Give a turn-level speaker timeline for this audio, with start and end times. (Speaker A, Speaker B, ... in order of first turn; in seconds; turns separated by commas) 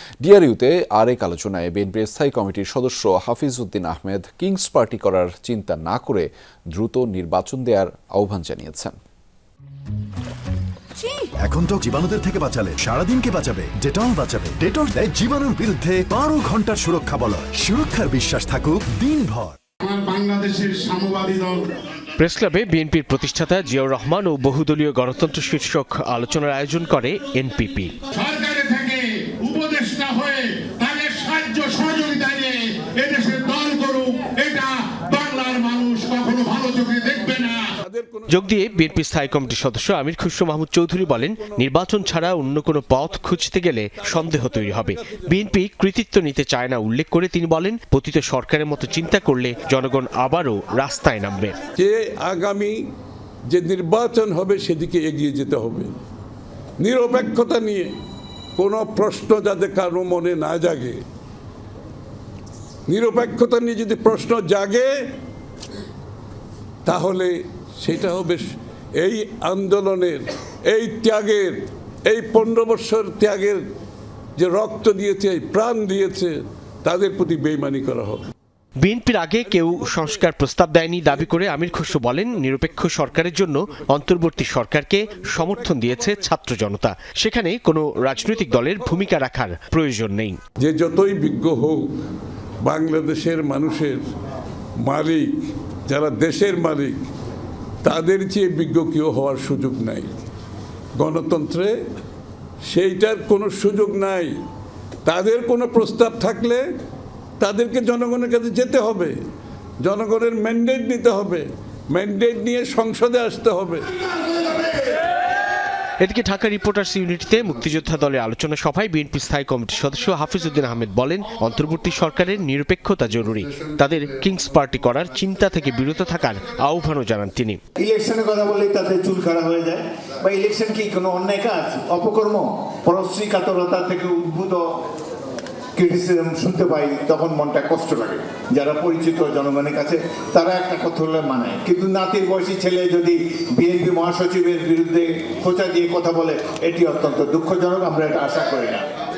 Speaker A: 0.2-8.9, Speaker B: 11.1-19.6, Speaker C: 19.8-21.8, Speaker D: 22.2-27.9, Speaker C: 28.1-37.7, Speaker E: 37.8-38.4, Speaker D: 38.3-51.5, Speaker E: 51.8-52.8, Speaker E: 53.5-55.9, Speaker E: 56.8-57.9, Speaker E: 58.6-61.0, Speaker E: 62.9-65.1, Speaker E: 66.8-73.6, Speaker E: 74.4-78.2, Speaker D: 78.8-90.4, Speaker E: 90.6-91.9, Speaker E: 92.6-94.0, Speaker E: 94.8-97.1, Speaker E: 97.8-100.1, Speaker E: 101.0-101.7, Speaker E: 102.7-104.3, Speaker E: 105.0-106.6, Speaker E: 107.4-109.1, Speaker E: 109.8-113.8, Speaker D: 116.0-127.6, Speaker F: 127.8-134.6, Speaker F: 135.8-148.9